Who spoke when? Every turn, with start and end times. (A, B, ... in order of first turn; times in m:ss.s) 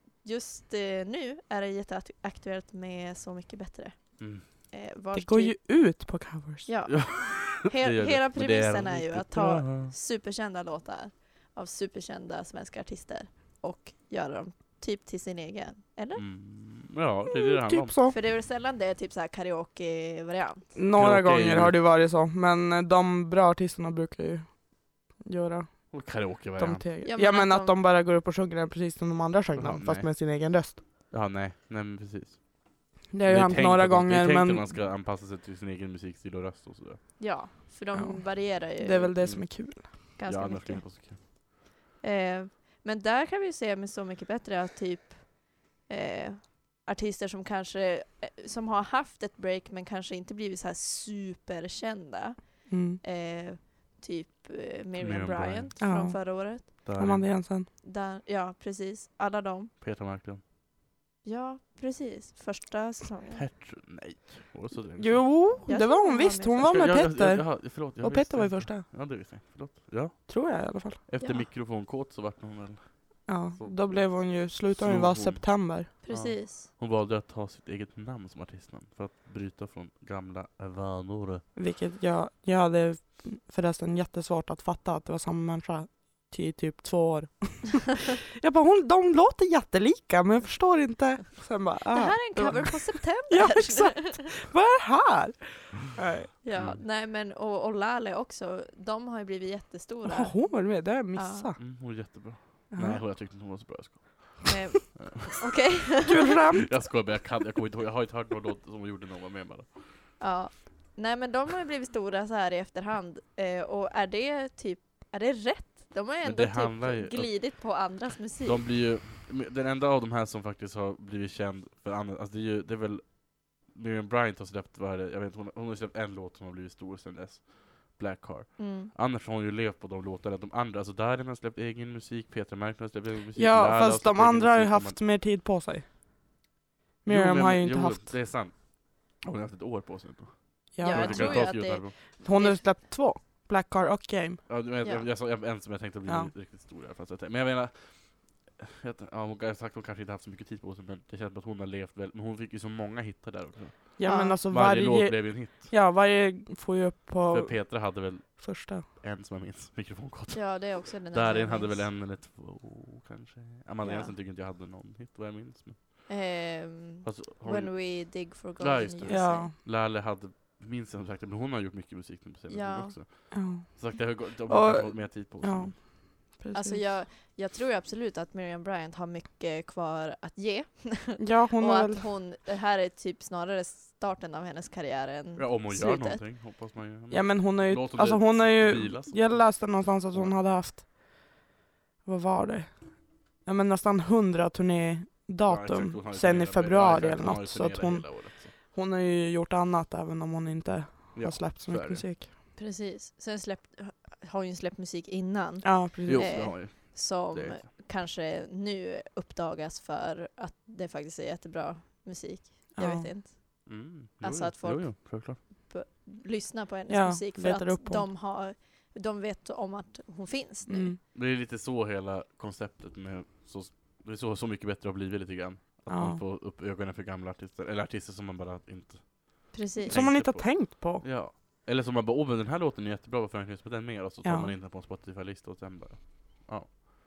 0:00.2-0:05.6 A
0:04.2-0:04.5 B
0:05.1-0:06.7 C
0:06.7-0:16.2 A
0:06.9-0:09.9 B
0:16.2-0:18.0 B
0:17.3-0:18.2 C
0:18.1-0:20.7 A
0:20.8-0:30.8 C
0:21.0-0:21.8 B
0:25.9-0:26.9 B
0:27.0-0:27.8 A
0:29.6-0:30.2 B
0:31.1-0:37.1 B
0:33.1-0:34.8 C
0:37.2-0:39.3 A
0:37.9-0:39.9 C
0:39.2-0:41.2 B
0:40.2-0:40.9 A
0:42.0-0:45.3 A
0:45.9-0:56.7 A
0:52.7-0:53.0 C
0:55.0-0:55.7 B
0:55.8-0:57.7 C
0:56.8-0:57.3 B
0:57.8-0:59.7 A
0:59.8-1:00.4 B
1:01.2-1:03.4 A
1:03.4-1:05.5 B
1:05.0-1:08.9 C
1:05.7-1:06.9 A
1:06.6-1:21.4 B
1:10.3-1:11.0 C
1:11.2-1:11.5 A
1:13.3-1:15.9 C
1:16.0-1:16.7 A
1:21.6-1:36.3 C
1:31.9-1:34.3 A
1:36.4-1:41.5 A
1:36.6-1:36.8 B
1:40.0-1:41.6 C
1:41.6-1:45.3 B
1:42.7-1:43.0 C
1:44.5-1:46.4 A
1:46.1-1:46.7 C
1:46.7-1:50.0 B
1:50.2-1:58.6 A
1:56.2-1:57.8 B
1:58.4-2:15.0 B
2:08.6-2:08.9 A
2:13.4-2:15.9 C
2:17.0-2:18.1 C
2:17.1-2:22.0 B
2:20.8-2:24.4 C
2:20.8-2:22.6 A
2:24.5-2:35.7 B
2:34.0-2:38.9 C
2:34.1-2:34.4 A
2:37.3-2:46.1 B
2:40.3-2:41.9 A
2:43.8-2:44.1 A
2:46.1-2:49.5 A
2:47.0-2:55.8 B
2:49.1-2:49.6 C
2:52.5-2:53.0 A
2:53.3-2:56.8 C
2:56.5-3:06.2 A
3:01.2-3:02.0 C
3:05.4-3:10.4 B
3:07.1-3:11.3 C
3:12.0-3:22.3 C
3:15.5-3:18.5 B
3:21.1-3:22.1 B
3:22.6-3:41.0 A
3:25.6-3:26.5 C
3:26.1-3:27.6 B
3:32.8-3:33.1 C
3:33.7-3:35.4 B
3:36.9-3:38.1 C
3:40.7-3:41.0 C
3:41.1-3:56.8 B
3:45.9-3:46.2 C
3:49.5-3:50.0 A
3:49.8-3:51.0 C
3:54.2-3:54.5 C